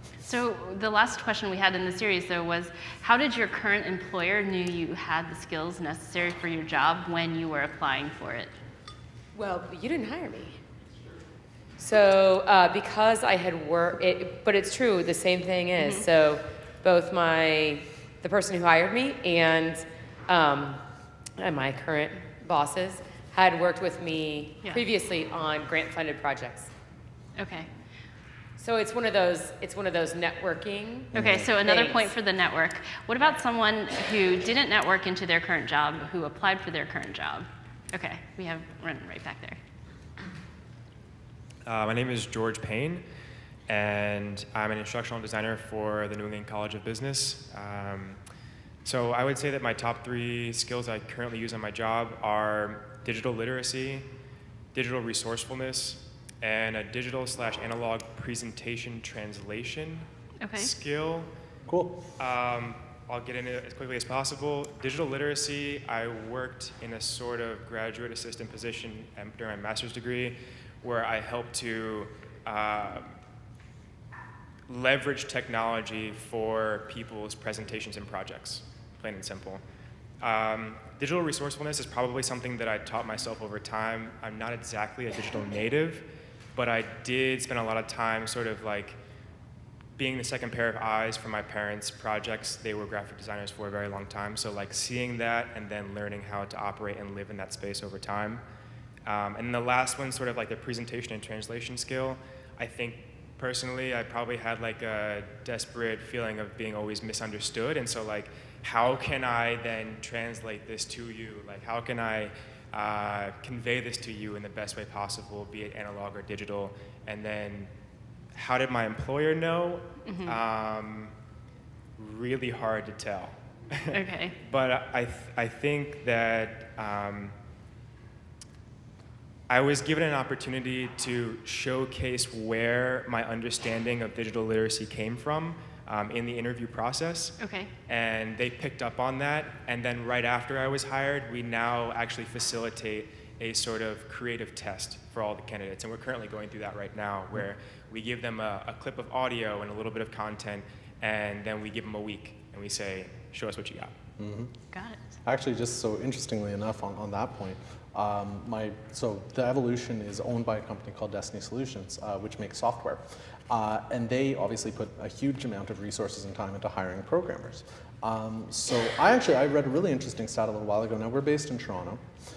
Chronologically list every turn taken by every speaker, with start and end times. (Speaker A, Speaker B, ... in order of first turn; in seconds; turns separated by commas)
Speaker A: 0.2-8.5, Speaker B: 9.3-10.6, Speaker B: 11.8-20.8, Speaker A: 15.8-16.1, Speaker B: 21.4-26.7, Speaker A: 27.4-27.7, Speaker B: 28.6-32.1, Speaker C: 31.1-31.5, Speaker A: 31.1-39.6, Speaker D: 41.6-43.0, Speaker D: 43.7-48.2, Speaker D: 48.8-54.1, Speaker D: 54.7-61.3, Speaker A: 60.4-60.7, Speaker C: 61.7-62.0, Speaker D: 62.2-73.2, Speaker D: 74.7-79.6, Speaker D: 80.2-89.0, Speaker D: 90.0-98.4, Speaker D: 99.0-117.7, Speaker D: 118.3-121.1, Speaker A: 120.1-120.4, Speaker D: 122.0-127.3, Speaker A: 123.9-124.3, Speaker D: 129.5-137.4, Speaker A: 137.4-137.7, Speaker D: 137.9-153.9, Speaker C: 154.2-154.5, Speaker A: 154.7-155.0, Speaker C: 155.2-172.0